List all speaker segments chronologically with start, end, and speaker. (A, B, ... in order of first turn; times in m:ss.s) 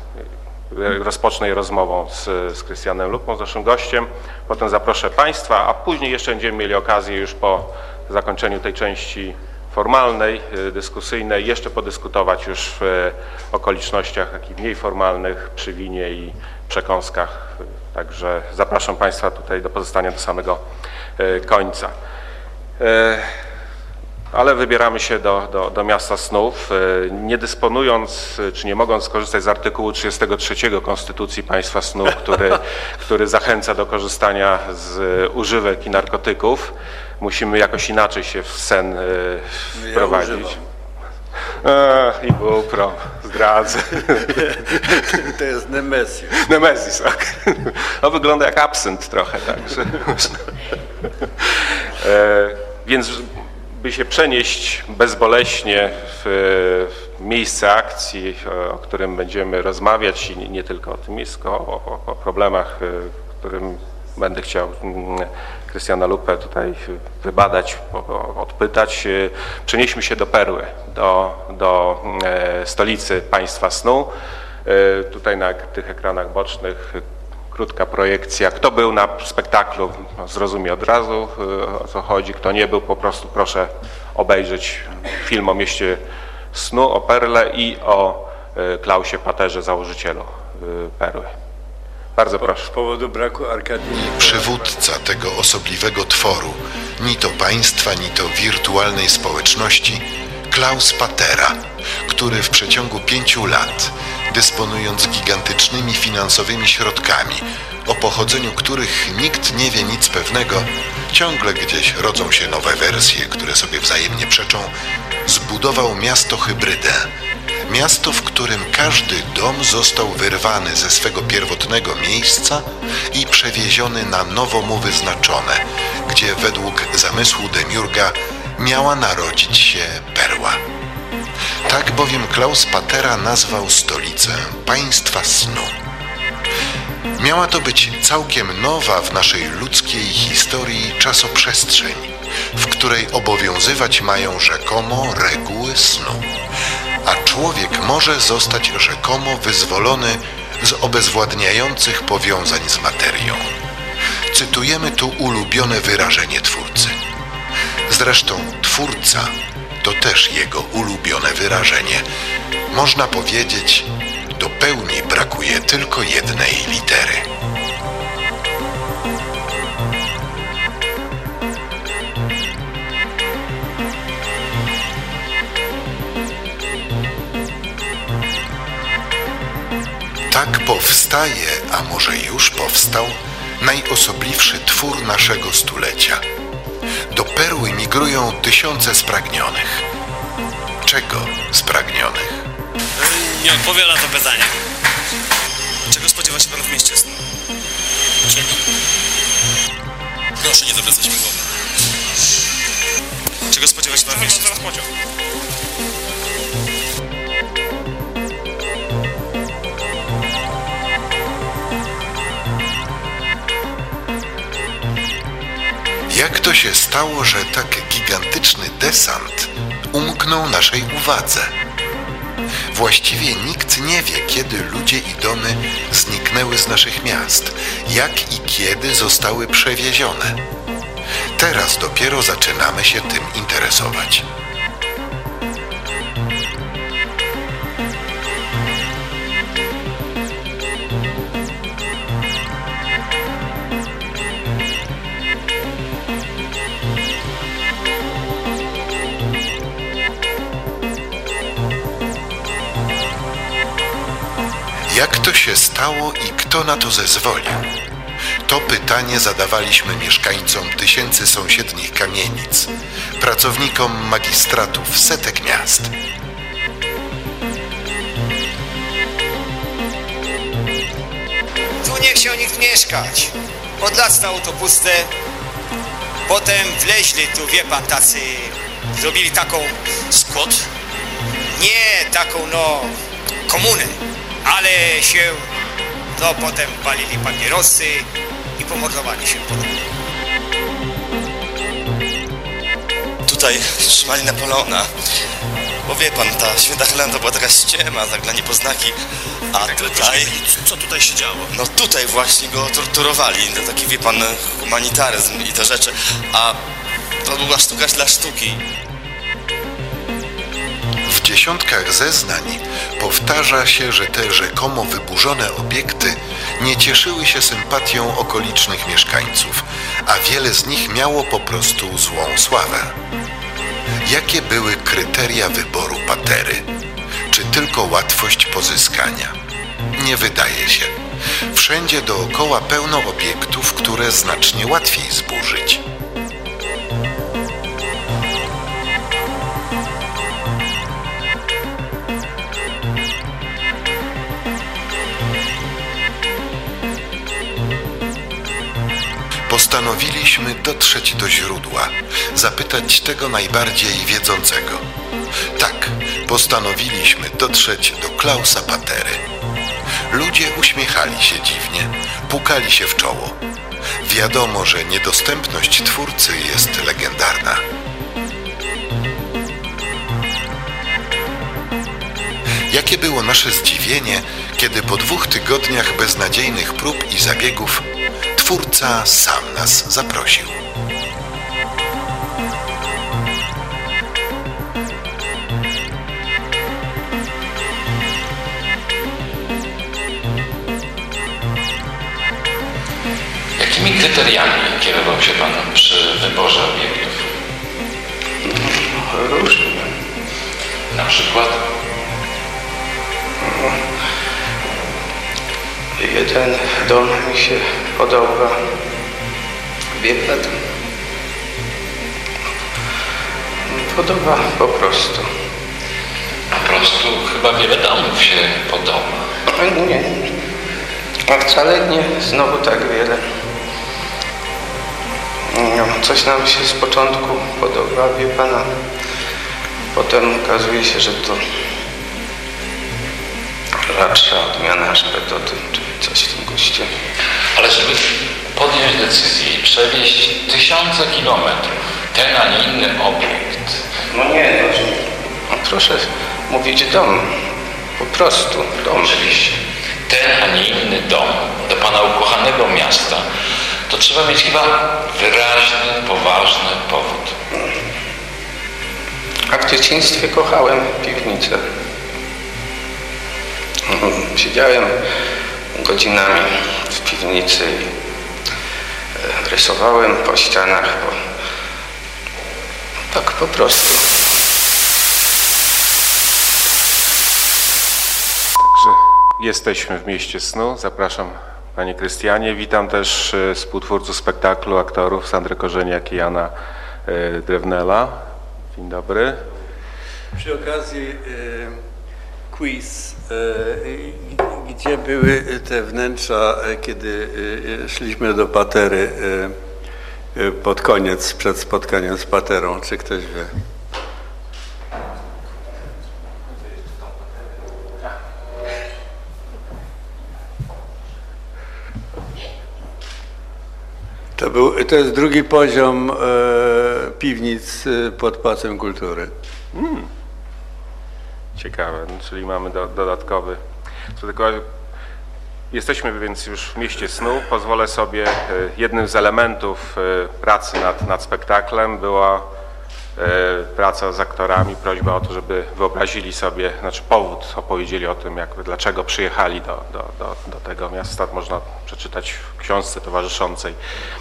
0:00.7-0:20.6 A
0:21.2-0:21.9 A
0:22.8-0:23.3 A
0:24.3-0:40.5 A
0:39.7-0:40.6 B
0:41.6-0:45.2 A
0:44.4-0:46.4 B
0:46.4-0:50.4 A
0:51.5-1:14.1 A
1:14.6-1:26.0 A
1:26.5-1:31.3 A
1:32.2-1:32.7 A
1:32.4-1:34.7 B
1:34.1-1:54.7 C
1:55.2-1:57.1 C
1:57.7-2:10.6 C
2:11.7-2:15.7 C
2:17.2-2:26.2 C
2:27.0-2:33.5 C
2:34.3-2:37.0 C
2:37.9-2:42.0 C
2:42.7-2:47.3 C
3:00.3-3:06.2 C
3:07.1-3:09.8 C
3:10.8-3:12.4 C
3:13.4-3:14.4 D
3:15.9-3:17.2 D
3:18.3-3:18.6 D
3:20.4-3:21.4 D
3:23.5-3:24.8 D
3:36.1-3:41.5 C
3:42.7-3:50.4 C
3:51.4-3:54.2 C
4:14.9-4:17.6 C
4:18.4-4:25.9 C
4:31.8-4:35.1 E
4:36.3-4:40.6 E
4:41.5-4:42.9 E
4:43.5-4:45.5 E
4:46.1-4:48.0 E
4:48.6-4:49.7 E
4:53.3-4:54.9 D
4:55.8-4:59.0 D
4:59.5-5:06.6 D
5:07.2-5:08.6 D
5:11.0-5:22.9 C
5:24.0-5:26.7 C
5:27.3-5:29.3 C
5:30.0-5:30.9 C
5:31.5-5:35.8 C
5:49.5-5:54.8 C
5:55.5-5:59.2 C
6:00.1-6:03.4 C
6:04.0-6:07.6 C
6:12.7-6:20.6 C
6:33.6-6:37.3 F
6:38.4-6:39.9 G
6:40.9-6:41.6 F
6:43.5-6:43.7 G
6:46.0-6:48.6 G
6:50.0-6:50.6 G
6:53.7-6:55.3 G
6:56.6-6:59.2 F
6:59.5-7:00.2 G
7:01.3-7:03.4 G
7:05.5-7:08.8 G
7:09.9-7:11.4 G
7:13.9-7:16.9 G
7:17.5-7:23.8 F
7:24.1-7:27.4 G
7:28.0-7:29.5 G
7:30.1-7:33.2 F
7:33.9-7:37.3 F
7:39.5-7:41.6 G
7:43.9-7:45.0 G
7:45.7-7:47.9 G
7:49.2-7:51.2 G
7:53.1-7:54.1 G
7:58.6-8:06.5 A
8:07.0-8:08.2 A
8:08.7-8:09.4 A
8:10.4-8:11.8 B
8:12.5-8:19.5 B
8:20.3-8:23.5 B
8:34.4-8:39.3 B
8:39.7-8:40.1 A
8:41.6-8:43.6 A
8:44.1-8:44.6 A
8:45.7-8:52.5 A
8:53.2-9:03.8 A